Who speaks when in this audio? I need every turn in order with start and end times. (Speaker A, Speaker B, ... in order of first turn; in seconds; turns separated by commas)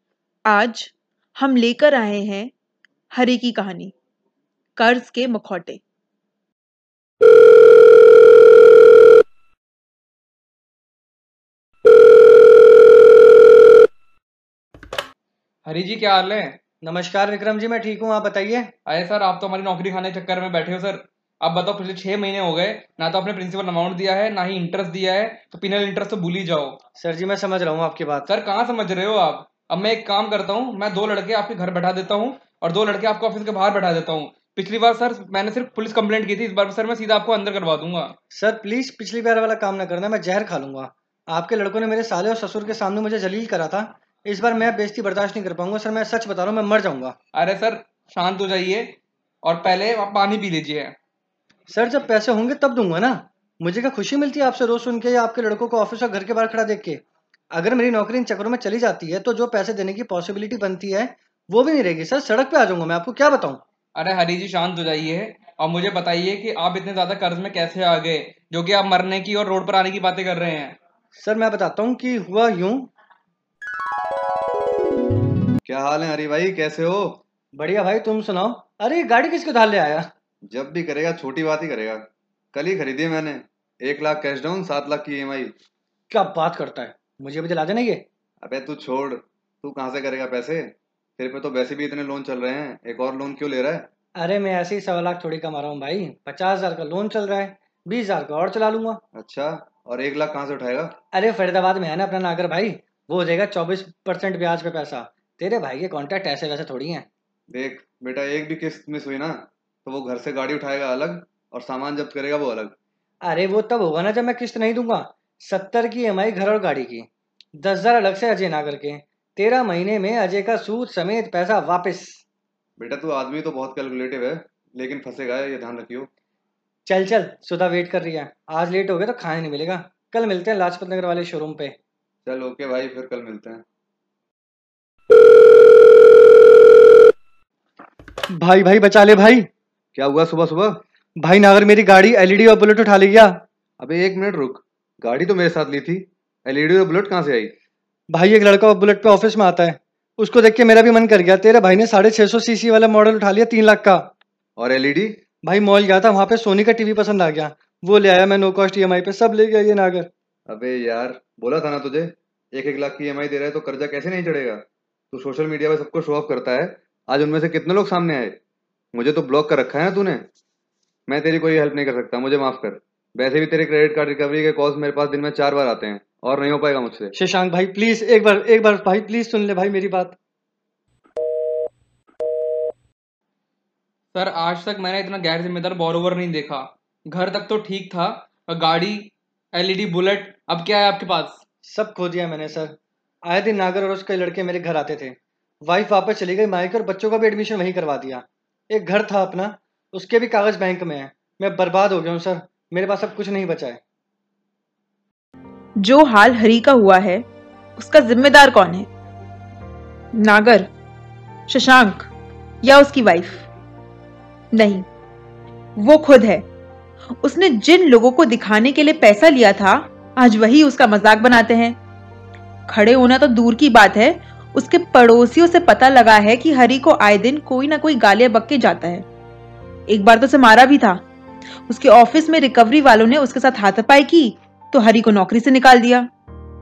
Speaker A: 0.5-2.5, Speaker A: 3.1-3.9, Speaker A: 4.8-5.8, Speaker B: 15.6-16.6, Speaker C: 16.8-18.7, Speaker B: 18.9-26.8, Speaker C: 27.0-28.3, Speaker B: 28.3-38.1, Speaker C: 38.3-47.1, Speaker B: 47.3-51.0, Speaker C: 51.7-63.6, Speaker B: 63.9-70.8, Speaker C: 71.2-72.9, Speaker D: 75.6-77.2, Speaker C: 77.5-80.1, Speaker D: 80.5-85.5, Speaker C: 86.1-88.0, Speaker D: 88.4-93.9, Speaker C: 94.2-99.0, Speaker D: 99.1-100.9, Speaker C: 101.1-107.1, Speaker D: 107.5-112.8, Speaker C: 113.2-122.2, Speaker D: 122.8-126.1, Speaker C: 126.8-131.8, Speaker D: 132.2-133.6, Speaker C: 138.3-139.5, Speaker D: 139.9-140.8, Speaker C: 141.2-143.4, Speaker D: 143.8-147.5, Speaker C: 148.1-154.1, Speaker D: 154.6-155.2, Speaker C: 155.4-160.1, Speaker D: 160.5-168.4, Speaker D: 168.9-170.2, Speaker D: 171.1-177.1, Speaker C: 177.1-180.2, Speaker B: 184.1-191.4, Speaker C: 191.7-203.8, Speaker A: 205.8-208.9, Speaker A: 210.1-210.7, Speaker A: 211.5-212.1, Speaker A: 212.6-213.5, Speaker A: 214.5-214.8, Speaker A: 215.8-216.4, Speaker A: 217.2-221.8, Speaker A: 222.7-229.1, Speaker A: 229.9-231.0, Speaker A: 231.7-236.1